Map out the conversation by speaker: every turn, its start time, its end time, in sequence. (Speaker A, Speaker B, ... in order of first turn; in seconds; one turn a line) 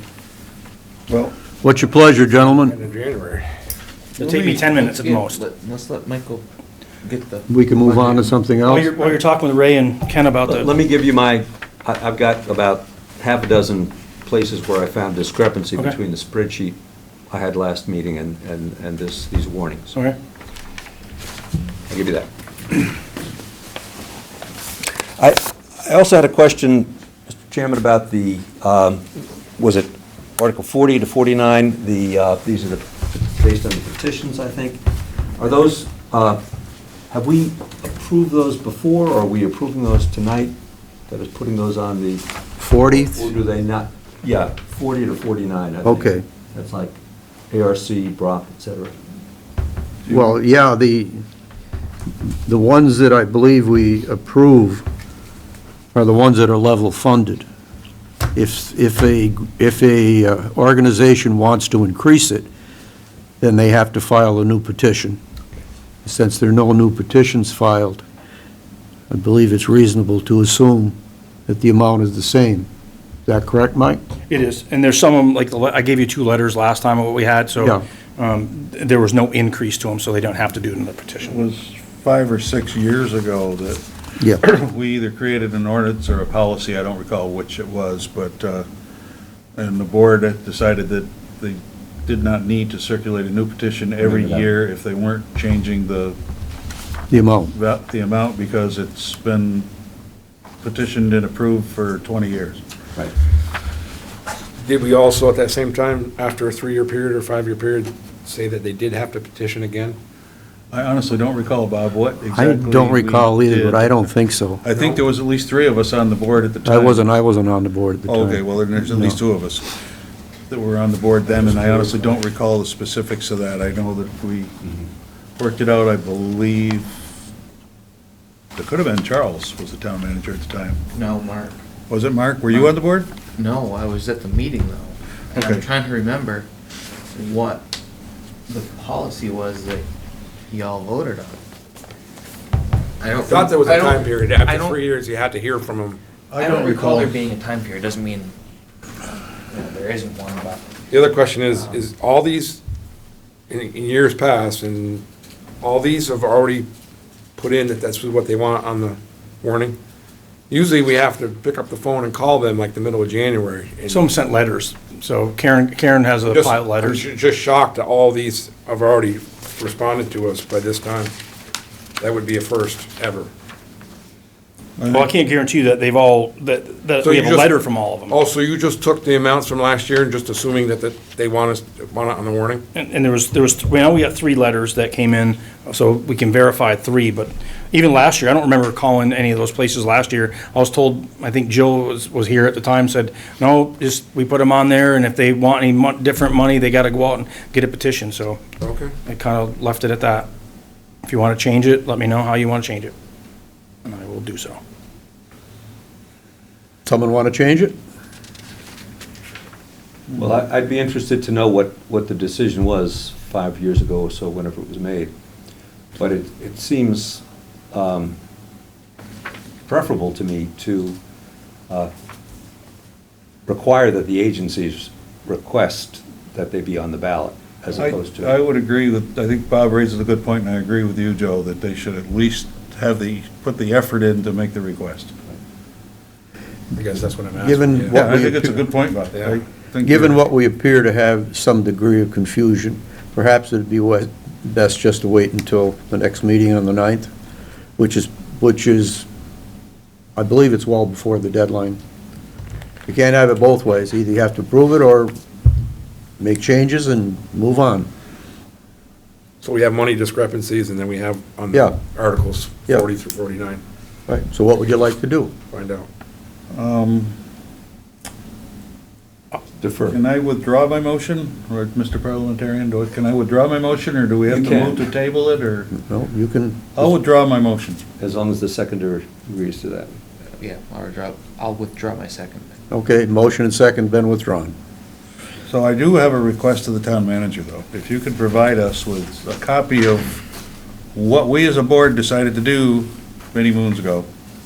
Speaker A: 1.1-1.3
Speaker B: 1.6-2.8
Speaker C: 2.3-3.5
Speaker D: 4.2-5.4
Speaker E: 4.2-6.4
Speaker E: 7.0-8.3
Speaker B: 7.5-8.9
Speaker D: 8.6-10.7
Speaker F: 10.4-16.8
Speaker F: 17.3-19.9
Speaker F: 21.9-22.9
Speaker F: 25.2-29.1
Speaker F: 29.6-34.8
Speaker F: 35.4-36.4
Speaker F: 37.1-40.5
Speaker F: 41.1-47.0
Speaker B: 42.6-43.3
Speaker B: 45.8-46.2
Speaker F: 47.5-48.9
Speaker B: 50.1-51.2
Speaker B: 52.5-54.9
Speaker B: 55.9-57.4
Speaker B: 58.3-62.5
Speaker B: 63.4-65.2
Speaker B: 66.0-68.0
Speaker B: 69.1-72.7
Speaker B: 73.2-74.0
Speaker D: 74.3-81.4
Speaker A: 81.2-83.8
Speaker A: 84.4-88.7
Speaker A: 89.5-96.2
Speaker F: 94.0-94.5
Speaker B: 97.1-97.5
Speaker A: 97.5-99.7
Speaker A: 100.6-102.6
Speaker C: 104.6-110.0
Speaker A: 110.7-114.1
Speaker B: 112.3-114.6
Speaker A: 114.6-117.0
Speaker C: 114.7-115.0
Speaker B: 116.6-119.2
Speaker A: 118.1-119.7
Speaker A: 120.5-124.5
Speaker A: 125.4-127.0
Speaker A: 128.6-130.8
Speaker E: 130.9-131.5
Speaker A: 131.9-133.1
Speaker E: 132.5-132.8
Speaker E: 133.3-136.5
Speaker A: 135.3-135.7
Speaker E: 137.1-137.6
Speaker E: 138.5-139.9
Speaker E: 140.5-141.4
Speaker E: 143.0-144.8
Speaker C: 143.2-146.0
Speaker A: 146.3-147.2
Speaker E: 146.3-148.3
Speaker E: 149.5-150.7
Speaker C: 150.9-152.6
Speaker C: 153.5-155.0
Speaker C: 155.6-156.7
Speaker C: 157.4-159.8
Speaker C: 160.5-164.1
Speaker D: 163.9-167.0
Speaker C: 166.3-171.1
Speaker C: 172.0-173.3
Speaker A: 174.8-175.1
Speaker D: 174.9-178.1
Speaker C: 177.0-182.6
Speaker D: 182.7-198.4
Speaker C: 198.6-198.9
Speaker D: 199.0-200.3
Speaker D: 201.0-202.9
Speaker D: 203.8-204.6
Speaker B: 206.8-207.7
Speaker F: 210.1-215.1
Speaker F: 215.9-218.2
Speaker F: 219.7-221.0
Speaker F: 223.5-228.3
Speaker A: 227.7-235.2
Speaker C: 236.7-238.0
Speaker B: 237.3-238.6
Speaker A: 237.8-240.2
Speaker C: 239.1-239.4
Speaker B: 239.8-247.1
Speaker B: 247.8-249.1
Speaker B: 250.2-251.8
Speaker B: 252.9-255.1
Speaker B: 256.2-257.9
Speaker C: 259.4-263.6
Speaker B: 264.1-265.3
Speaker C: 265.5-265.9
Speaker A: 266.5-267.2
Speaker F: 269.6-270.0
Speaker A: 269.9-275.7
Speaker F: 274.3-274.9
Speaker B: 275.7-276.9
Speaker A: 276.8-277.9
Speaker F: 278.0-280.0
Speaker E: 280.4-282.5
Speaker B: 282.7-284.5
Speaker A: 285.5-290.2
Speaker A: 290.9-294.1